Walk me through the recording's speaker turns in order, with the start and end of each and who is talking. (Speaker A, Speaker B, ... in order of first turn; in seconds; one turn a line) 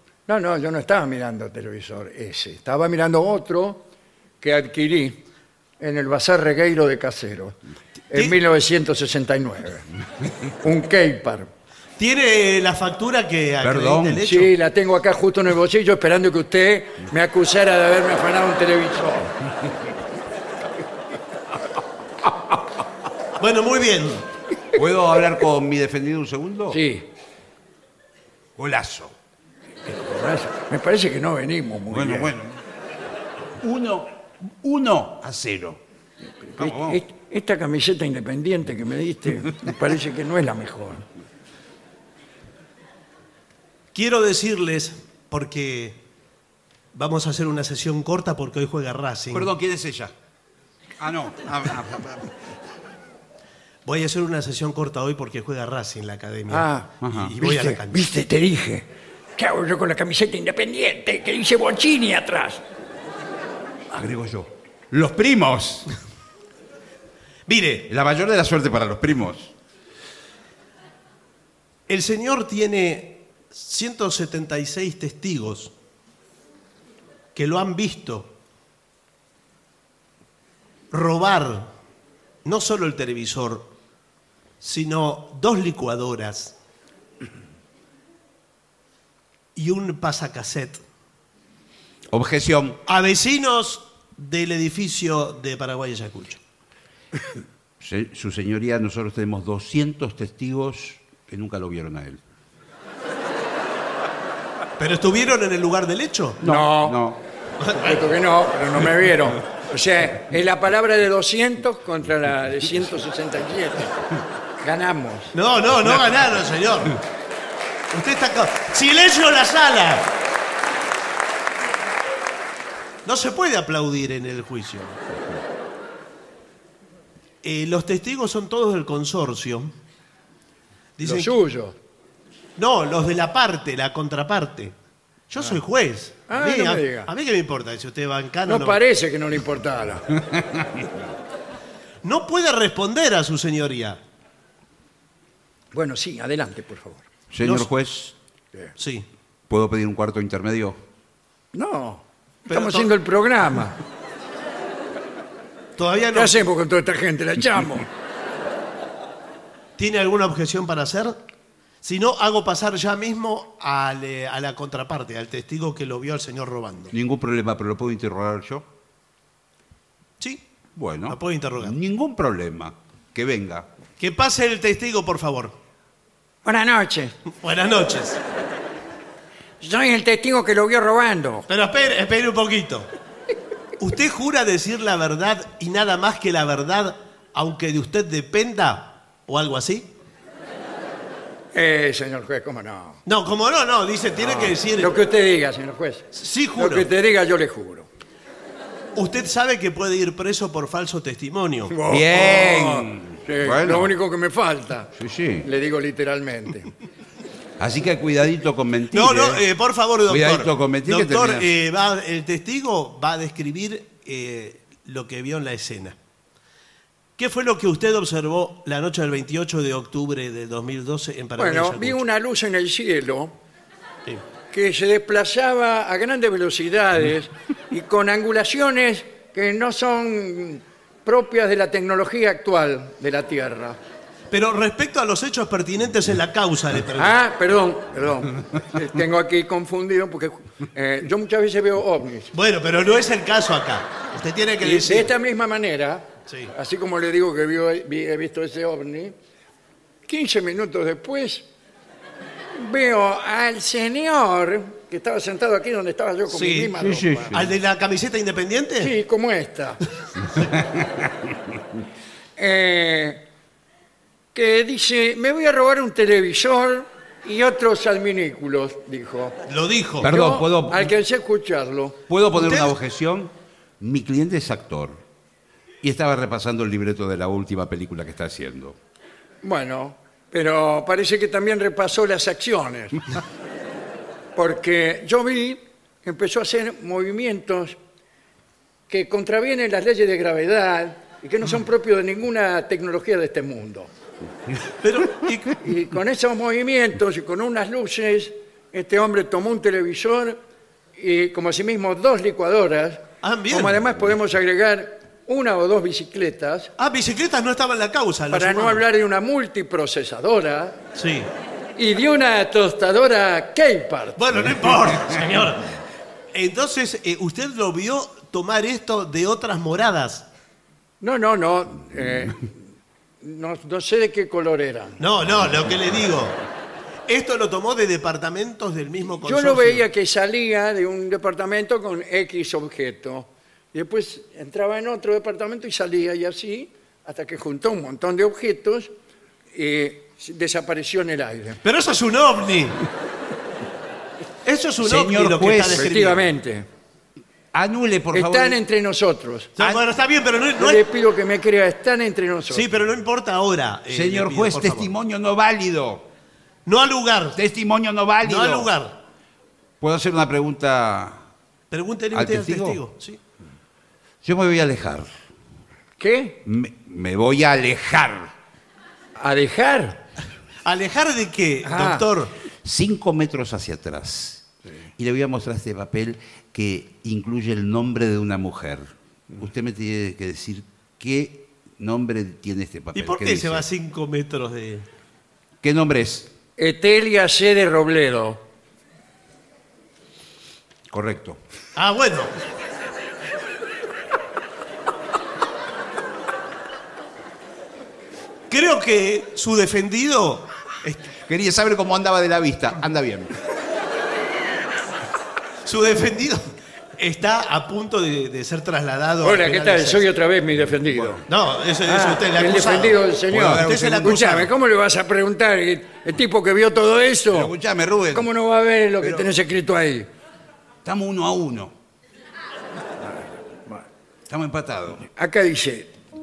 Speaker A: 0.3-3.9
Speaker A: 4.4-5.2
Speaker A: 5.8-7.6
Speaker A: 8.1-9.8
Speaker A: 10.6-11.5
Speaker B: 12.0-14.5
Speaker C: 13.6-14.2
Speaker A: 14.2-19.3
Speaker B: 23.4-24.2
Speaker C: 24.7-26.8
Speaker A: 26.7-27.0
Speaker C: 28.6-29.1
Speaker A: 29.9-32.3
Speaker C: 31.9-32.6
Speaker C: 33.6-35.8
Speaker C: 36.6-37.0
Speaker A: 36.6-41.0
Speaker B: 43.9-46.0
Speaker B: 46.9-49.5
Speaker C: 49.3-50.1
Speaker C: 51.0-52.3
Speaker B: 53.9-58.0
Speaker A: 56.5-62.6
Speaker C: 57.0-57.3
Speaker C: 63.9-65.9
Speaker B: 67.5-67.8
Speaker C: 67.8-69.5
Speaker B: 71.9-75.7
Speaker B: 77.3-78.3
Speaker B: 80.9-81.7
Speaker B: 82.4-83.7
Speaker B: 84.6-86.5
Speaker B: 89.5-90.8
Speaker C: 92.1-92.8
Speaker B: 92.9-96.4
Speaker C: 97.8-102.2
Speaker B: 104.8-106.4
Speaker A: 106.4-107.0
Speaker C: 106.4-107.2
Speaker B: 107.6-108.1
Speaker A: 107.8-114.0
Speaker A: 114.6-115.3
Speaker B: 115.3-117.0
Speaker B: 117.9-120.1
Speaker B: 123.0-125.0
Speaker B: 127.4-129.7
Speaker B: 131.0-131.3
Speaker A: 131.0-131.8
Speaker B: 132.6-134.7
Speaker B: 135.3-138.8
Speaker A: 136.3-137.1
Speaker A: 138.5-140.1
Speaker B: 142.0-144.0
Speaker A: 145.7-147.1
Speaker C: 147.3-148.1
Speaker B: 147.4-147.7
Speaker B: 148.8-149.1
Speaker C: 149.5-150.8
Speaker A: 151.5-153.8
Speaker B: 152.5-152.9
Speaker B: 155.8-156.3
Speaker A: 156.1-157.9
Speaker B: 159.8-161.2
Speaker B: 161.8-166.9
Speaker C: 166.9-168.7
Speaker C: 170.8-173.7
Speaker B: 171.1-171.8
Speaker B: 174.0-175.5
Speaker A: 176.4-177.2
Speaker B: 177.4-178.2
Speaker A: 179.6-181.5
Speaker B: 181.5-182.9
Speaker B: 183.8-189.9
Speaker A: 191.5-193.0
Speaker B: 193.1-194.9
Speaker A: 194.2-197.9
Speaker B: 196.1-196.9
Speaker B: 198.9-201.8
Speaker A: 201.7-206.7
Speaker C: 201.9-203.9
Speaker C: 204.9-205.4
Speaker C: 207.6-209.4
Speaker B: 208.9-215.9
Speaker C: 210.1-211.5
Speaker B: 217.2-222.0
Speaker A: 221.4-223.3
Speaker A: 224.5-233.8
Speaker B: 234.3-237.2
Speaker A: 236.9-242.3
Speaker B: 242.3-245.1
Speaker A: 244.6-249.1
Speaker B: 246.3-246.5
Speaker A: 250.1-251.5
Speaker A: 252.6-257.4
Speaker B: 256.3-256.7
Speaker C: 256.8-257.5
Speaker B: 257.3-258.9
Speaker A: 258.8-259.8
Speaker A: 262.4-263.2
Speaker A: 264.3-269.4
Speaker B: 269.5-270.1
Speaker C: 270.0-270.9
Speaker A: 270.0-272.0
Speaker C: 272.1-275.0
Speaker B: 272.3-272.7
Speaker C: 275.8-278.8
Speaker A: 279.4-283.0
Speaker A: 284.3-287.8
Speaker A: 288.9-293.9
Speaker B: 294.8-295.6
Speaker A: 295.6-300.4
Speaker A: 300.9-306.7
Speaker B: 303.2-303.8
Speaker B: 306.8-308.8
Speaker A: 308.3-310.8
Speaker B: 310.9-311.3
Speaker A: 311.8-314.2
Speaker B: 314.2-315.8
Speaker B: 316.3-320.3
Speaker A: 321.0-322.6
Speaker A: 323.2-325.0
Speaker B: 325.0-326.4
Speaker B: 327.1-329.8
Speaker A: 329.2-338.9
Speaker A: 339.5-341.6
Speaker B: 341.6-342.8
Speaker B: 344.4-346.3
Speaker C: 344.8-345.9
Speaker A: 345.7-346.7
Speaker C: 347.5-348.6
Speaker A: 348.1-349.6
Speaker B: 349.6-350.9
Speaker A: 350.6-352.7
Speaker B: 352.5-354.9
Speaker C: 353.9-356.1
Speaker B: 356.6-357.4
Speaker C: 357.3-358.7
Speaker B: 358.2-358.9
Speaker C: 359.8-361.2
Speaker B: 361.7-363.2
Speaker C: 362.1-362.8
Speaker C: 364.2-365.1
Speaker A: 366.0-366.4
Speaker C: 366.4-368.3
Speaker A: 369.2-370.0
Speaker B: 370.6-372.3
Speaker A: 371.6-372.0
Speaker C: 372.6-374.4
Speaker C: 375.0-383.6
Speaker B: 382.9-384.9
Speaker C: 385.6-386.3
Speaker A: 386.6-388.4
Speaker C: 390.9-391.4
Speaker B: 391.8-392.3
Speaker B: 398.5-401.1
Speaker C: 401.2-403.3
Speaker B: 405.6-410.1
Speaker A: 409.2-411.2
Speaker C: 410.9-411.2
Speaker B: 411.3-414.5
Speaker A: 411.9-417.5
Speaker C: 413.3-414.1
Speaker C: 417.3-418.3
Speaker A: 418.1-420.1
Speaker C: 419.0-419.3
Speaker C: 420.8-421.7
Speaker C: 424.3-425.1
Speaker A: 425.1-425.9